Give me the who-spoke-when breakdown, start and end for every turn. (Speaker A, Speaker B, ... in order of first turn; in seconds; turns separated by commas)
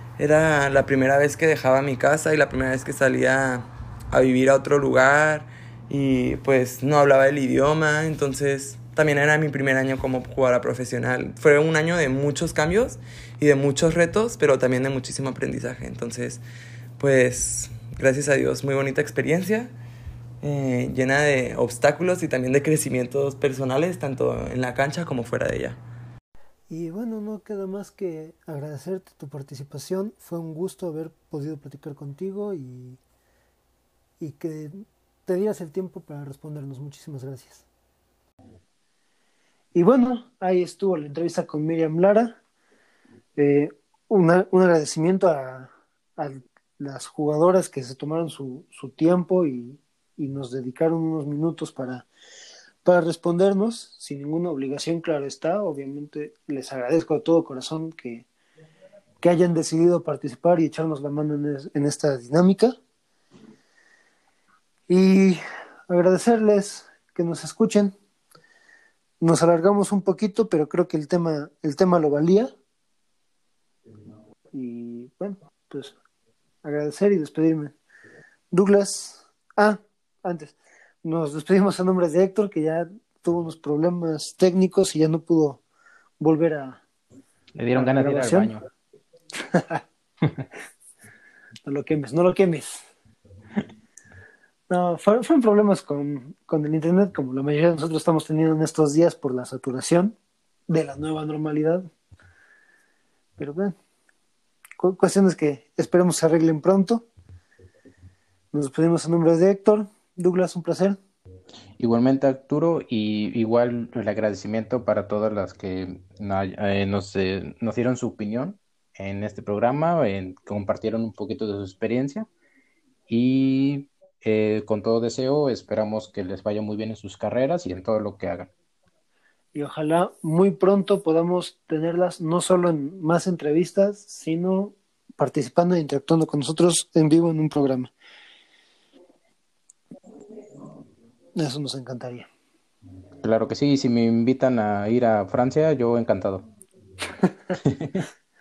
Speaker A: 0.2-16.4, Speaker A: 17.0-19.7, Speaker A: 20.4-25.8, Speaker B: 26.7-33.0, Speaker B: 34.2-37.6, Speaker B: 39.7-42.4, Speaker B: 43.4-52.1, Speaker B: 52.8-58.2, Speaker B: 59.2-62.8, Speaker B: 64.9-67.9, Speaker B: 69.2-72.5, Speaker B: 74.5-76.0, Speaker B: 76.6-77.7, Speaker B: 78.5-85.6, Speaker B: 86.2-86.8, Speaker C: 87.5-88.6, Speaker B: 87.7-88.5, Speaker B: 89.4-89.8, Speaker B: 91.6-92.9, Speaker B: 94.7-100.2, Speaker B: 100.7-101.9, Speaker B: 103.4-103.8, Speaker B: 104.8-107.0, Speaker B: 108.5-111.0, Speaker C: 111.8-122.3, Speaker C: 123.1-128.5, Speaker B: 129.5-137.9, Speaker B: 141.3-142.3, Speaker C: 143.2-146.4, Speaker C: 147.6-148.0